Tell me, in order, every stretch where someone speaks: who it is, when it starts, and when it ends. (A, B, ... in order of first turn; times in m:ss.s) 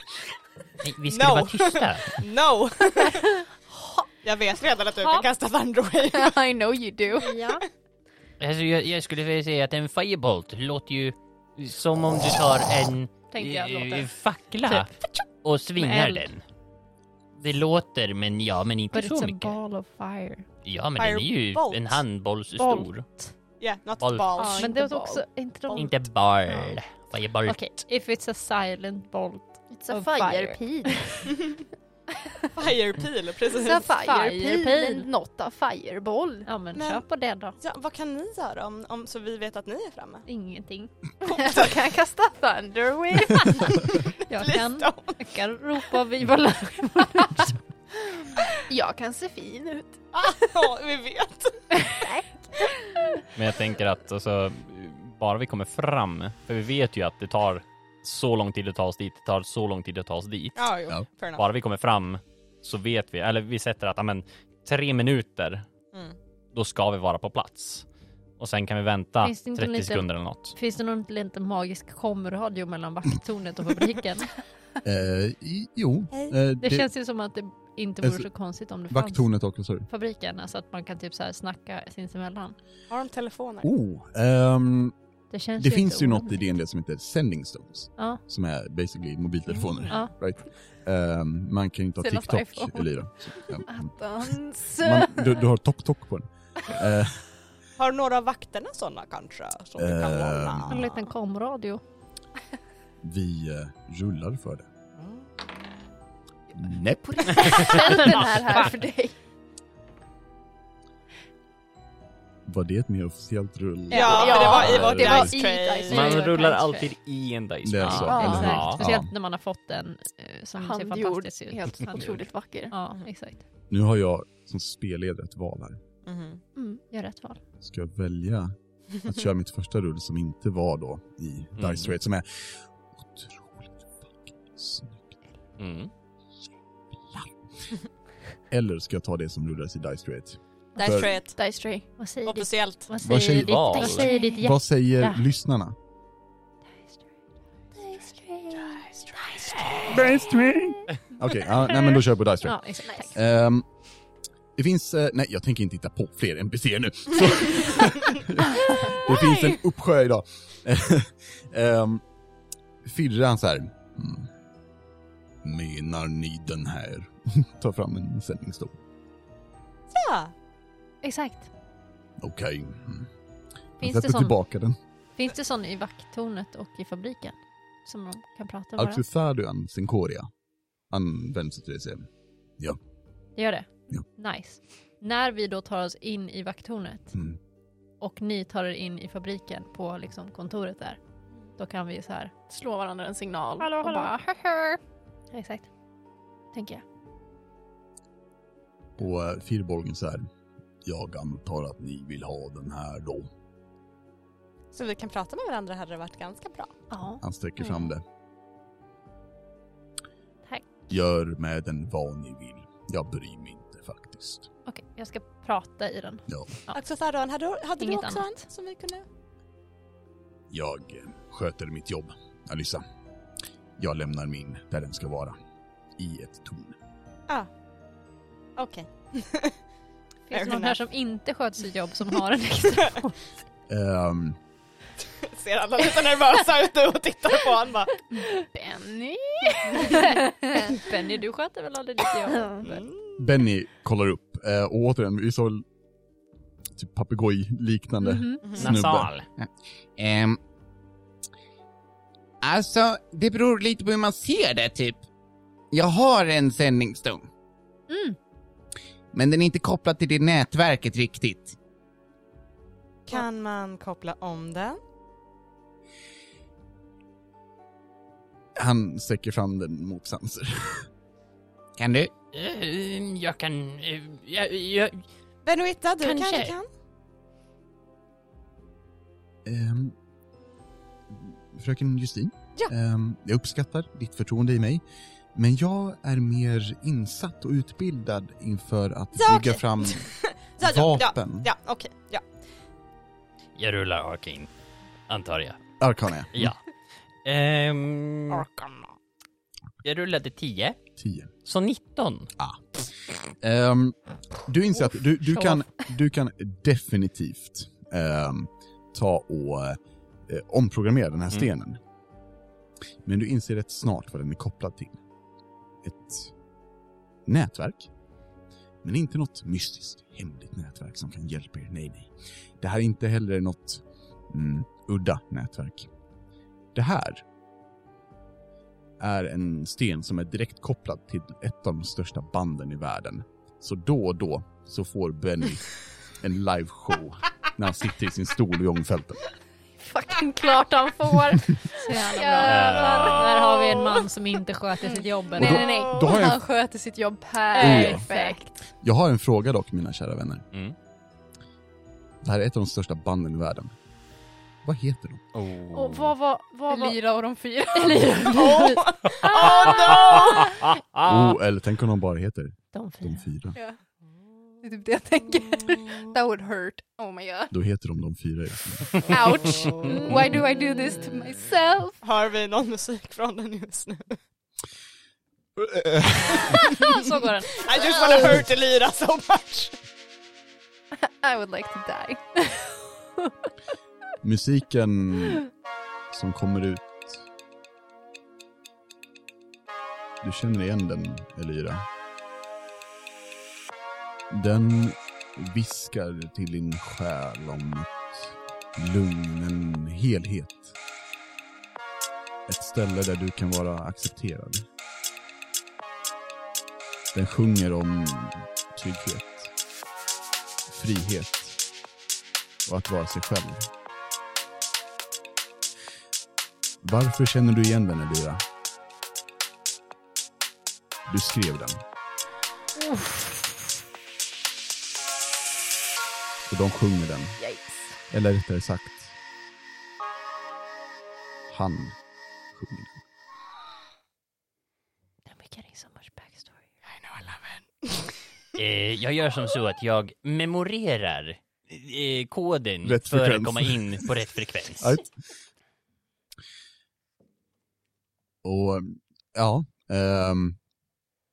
0:00.8-0:02.2 A
0:01.1-0:03.3 B
0:04.2-0:06.4 B
0:05.0-0:05.3 C
0:06.1-0:07.4 D
0:07.2-0:07.7 C
0:08.4-0:14.9 A
0:13.3-0:14.1 C
0:14.7-0:15.0 C
0:15.4-0:16.4 A
0:15.8-0:16.3 C
0:17.4-0:19.6 A
0:18.9-0:20.4 C
0:20.6-0:23.0 A
0:21.0-0:22.0 B
0:22.6-0:23.3 C
0:23.6-0:24.7 B
0:24.0-0:24.3 A
0:24.4-0:25.3 D
0:24.5-0:26.8 C
0:25.8-0:27.6 A
0:27.4-0:31.3 C
0:29.7-0:30.6 D
0:32.6-0:33.9 B
0:33.5-0:36.5 D
0:33.9-0:35.1 C
0:36.4-0:37.6 C
0:36.7-0:37.1 B
0:37.6-0:40.2 B
0:40.3-0:41.5 C
0:41.2-0:44.0 D
0:43.3-0:47.7 C
0:44.3-0:45.2 B
0:48.7-0:50.7 D
0:50.1-0:51.6 B
0:52.0-0:52.7 D
0:53.4-1:00.7 E
1:00.6-1:01.4 B
1:01.4-1:05.7 E
1:06.5-1:07.9 E
1:08.4-1:10.6 E
1:09.2-1:14.4 C
1:14.8-1:16.9 F
1:16.6-1:19.3 C
1:18.9-1:19.9 F
1:19.9-1:22.6 C
1:22.9-1:23.7 B
1:23.6-1:24.9 F
1:25.3-1:26.4 C
1:25.6-1:37.2 F
1:28.0-1:28.2 C
1:32.0-1:32.9 D
1:33.6-1:35.4 D
1:37.8-1:41.0 B
1:39.8-1:40.8 F
1:40.7-1:41.8 C
1:43.0-1:44.7 F
1:45.0-1:45.3 B
1:46.5-1:47.7 F
1:47.0-1:49.2 D
1:52.5-1:55.3 F
1:53.9-1:56.3 D
1:53.9-1:56.0 B
1:54.0-1:54.7 C
1:55.9-1:58.8 E
1:55.9-1:57.0 C
1:57.6-1:59.1 F
1:57.9-2:03.4 C
1:57.9-1:58.7 D
2:00.6-2:02.8 D
2:03.7-2:05.8 F
2:06.0-2:06.4 B
2:06.6-2:06.8 D
2:06.9-2:07.4 C
2:07.6-2:15.1 F
2:11.6-2:11.9 E
2:15.6-2:15.9 E
2:18.5-2:21.1 F
2:20.8-2:21.9 D
2:20.8-2:21.4 B
2:22.0-2:25.2 C
2:22.2-2:22.9 B
2:23.0-2:23.7 F
2:23.2-2:24.1 E
2:23.7-2:24.4 D
2:24.4-2:25.8 F
2:27.8-2:28.8 C
2:28.8-2:29.8 B
2:29.5-2:30.2 D
2:29.9-2:33.7 F
2:32.4-2:33.2 C
2:32.8-2:33.1 D
2:34.6-2:42.0 F
2:39.1-2:39.6 B
2:42.8-2:44.3 F
2:45.4-2:48.8 F
2:49.9-2:50.3 B
2:51.0-2:51.5 C
2:52.2-2:53.1 F
2:53.8-2:54.4 C
2:53.8-2:54.8 F
2:55.2-2:59.0 C
2:58.8-3:00.3 F
3:00.9-3:02.1 F
3:03.4-3:07.2 C
3:08.0-3:11.0 C
3:11.6-3:12.3 C
3:12.5-3:14.2 D
3:13.6-3:14.8 C
3:15.3-3:15.7 C
3:16.5-3:16.8 D
3:19.0-3:20.3 F
3:20.8-3:23.3 F
3:24.7-3:26.7 B
3:26.9-3:27.2 C
3:27.2-3:28.0 F
3:30.9-3:34.5 F
3:34.7-3:36.8 C
3:36.7-3:39.0 B
3:37.8-3:38.5 C
3:40.5-3:42.8 F
3:43.8-3:45.4 F
3:46.0-3:46.8 F
3:48.6-3:49.6 B
3:50.3-3:53.2 C
3:50.3-3:50.8 B
3:53.7-3:54.4 F
3:55.2-3:58.0 B
3:58.5-4:00.7 D
3:59.7-4:02.8 C
4:02.3-4:02.7 D
4:02.6-4:03.1 B
4:03.2-4:05.6 F
4:06.8-4:09.1 F
4:08.0-4:08.6 C
4:08.6-4:09.1 E
4:08.8-4:09.2 A
4:09.4-4:10.4 G
4:12.4-4:15.1 G
4:15.7-4:17.3 G
4:17.9-4:18.2 C
4:19.1-4:21.6 G
4:23.1-4:24.8 B
4:28.6-4:30.9 F
4:31.8-4:32.1 G
4:32.3-4:35.0 A
4:35.4-4:36.7 B
4:36.0-4:36.6 A
4:39.4-4:40.0 F
4:41.1-4:44.8 F
4:45.4-4:51.5 F
4:49.2-4:52.3 B
4:53.6-4:54.5 A
4:55.1-4:55.7 A
4:55.8-4:56.5 F
4:56.3-4:56.6 A
4:57.2-4:58.5 A
4:58.3-4:59.0 B
4:59.8-5:00.8 A
5:01.0-5:01.3 F
5:01.4-5:02.3 A
5:03.4-5:11.8 F
5:05.3-5:05.6 C
5:13.0-5:15.0 F
5:15.8-5:16.3 F
5:17.3-5:17.9 F
5:18.8-5:25.9 F
5:26.8-5:27.2 F
5:29.0-5:39.2 F
5:39.9-5:41.2 D
5:40.1-5:45.8 C
5:41.8-5:43.3 D
5:42.5-5:43.5 E
5:43.6-5:44.0 B
5:45.3-5:48.6 D
5:45.4-5:46.4 F
5:47.5-5:48.4 C
5:47.6-5:48.0 F
5:48.8-5:50.5 F
5:52.2-5:53.7 F
5:54.6-5:55.3 F
5:55.3-5:56.1 E
5:55.7-5:57.2 C
5:56.7-5:58.1 D
5:57.7-5:59.8 C
5:58.3-6:00.5 B
5:59.4-6:01.4 E
6:01.0-6:03.6 F
6:02.7-6:03.2 C
6:04.6-6:07.5 D
6:07.5-6:09.1 F
6:09.1-6:12.0 D
6:12.0-6:14.2 B
6:15.6-6:16.6 F
6:16.5-6:18.0 C
6:16.6-6:19.8 B
6:20.9-6:22.3 D
6:24.2-6:25.4 F
6:26.1-6:27.2 F
6:30.2-6:31.9 F
6:34.3-6:40.8 F
6:42.5-6:44.6 F
6:47.1-6:49.5 F
6:50.7-6:51.6 F
6:52.7-6:53.7 F
6:56.8-6:58.4 F
7:01.1-7:01.8 F
7:02.9-7:03.3 C
7:06.5-7:07.4 F
7:07.4-7:08.0 D
7:08.1-7:09.1 F
7:11.5-7:12.0 F
7:12.5-7:13.0 F
7:15.3-7:16.6 C
7:16.9-7:18.1 B
7:18.6-7:25.0 A
7:22.8-7:24.1 F
7:24.8-7:25.1 F
7:28.4-7:30.6 F